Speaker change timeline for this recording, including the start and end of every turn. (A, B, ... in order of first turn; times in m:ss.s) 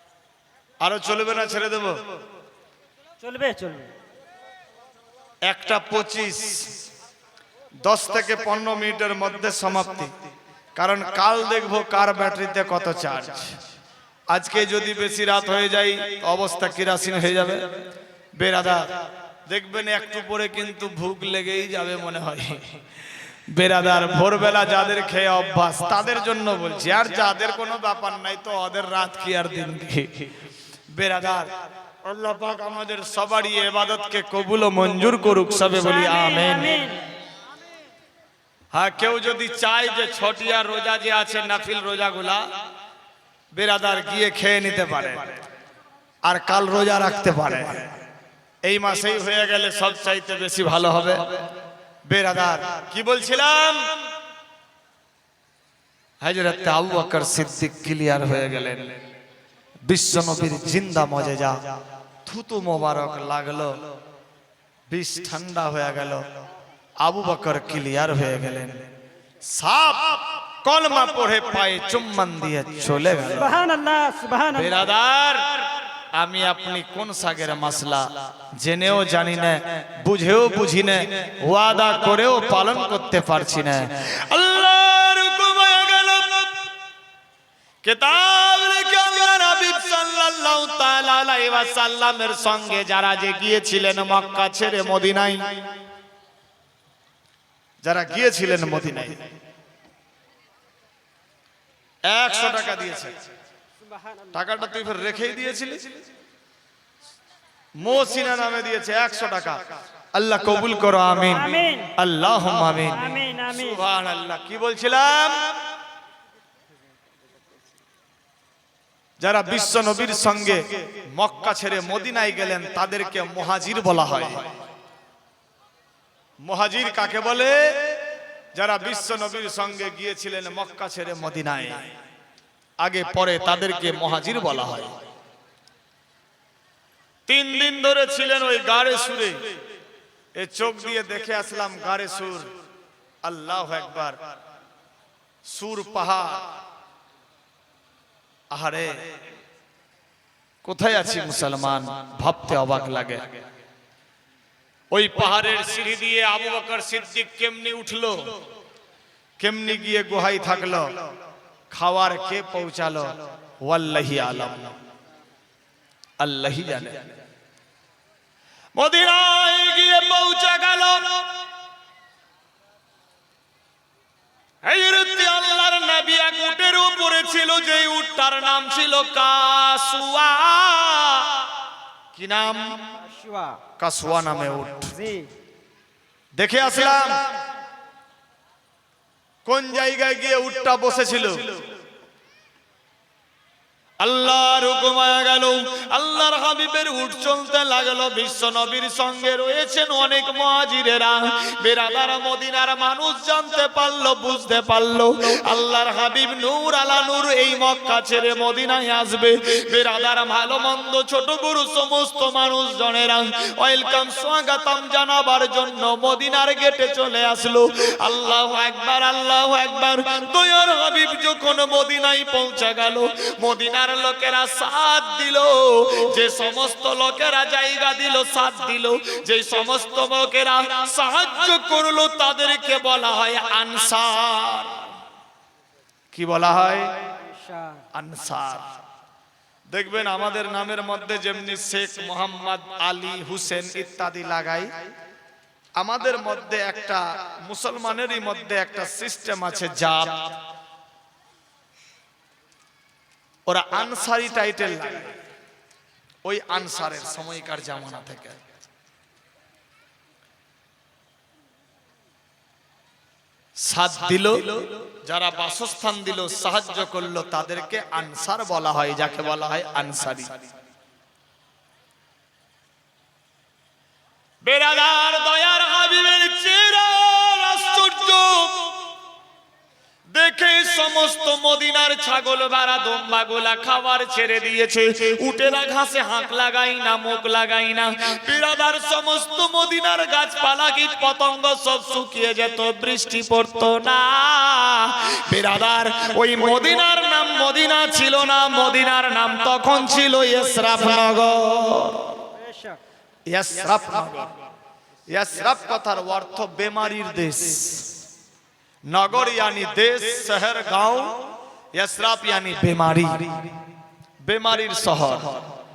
0:00.8-0:02.0 A
0:03.2-0:03.9 B
0:05.4-0:06.8 A
0:07.8-0:10.1 A
0:10.8-0:13.5 A
0:14.3-0:17.8 A
0:18.4-0:19.0 A
0:19.5-0:22.8 A
0:23.5-0:30.3 A
0:30.9-0:31.5 A
0:32.0-0:36.9 A
0:35.8-0:37.0 B
0:38.7-0:42.4 A
0:43.5-0:45.4 A
0:46.2-0:48.0 A
0:48.6-0:51.4 A
0:52.1-0:53.9 A
0:56.2-0:59.0 A
0:59.9-1:01.6 A
1:02.2-1:03.8 A
1:04.9-1:06.3 A
1:07.0-1:08.9 A
1:09.4-1:13.5 A
1:13.3-1:14.8 B
1:14.5-1:26.6 A
1:27.8-1:35.6 A
1:37.8-1:39.3 A
1:42.1-1:43.2 A
1:44.3-1:46.0 A
1:47.8-1:49.6 A
1:50.1-1:55.4 A
1:51.3-1:51.9 B
1:52.9-1:53.8 B
1:59.2-2:04.5 A
2:06.4-2:08.0 A
2:08.5-2:11.9 A
2:12.8-2:15.0 A
2:17.3-2:19.6 A
2:20.4-2:22.5 A
2:23.2-2:24.2 A
2:25.4-2:26.5 A
2:28.5-2:28.9 A
2:30.6-2:33.4 A
2:34.9-2:38.3 A
2:39.4-2:41.0 A
2:41.7-2:44.7 A
2:46.2-2:47.1 A
2:48.8-2:51.3 A
2:54.6-3:01.3 A
3:02.1-3:02.8 A
3:03.1-3:03.6 B
3:03.8-3:04.9 A
3:05.0-3:05.3 B
3:06.4-3:07.2 A
3:09.4-3:11.6 A
3:14.0-3:54.9 A
3:56.1-3:57.0 A
3:57.3-3:57.8 B
3:57.9-3:58.7 A
3:59.7-4:04.7 A
4:05.8-4:10.3 A
4:13.5-4:15.1 A
4:16.2-4:18.4 A
4:23.6-4:30.4 A
4:34.4-4:38.7 A
4:40.1-5:02.3 A
5:02.4-5:02.8 B
5:03.3-5:04.3 A
5:05.1-5:07.9 A
5:08.9-5:13.5 A
5:14.2-5:15.5 A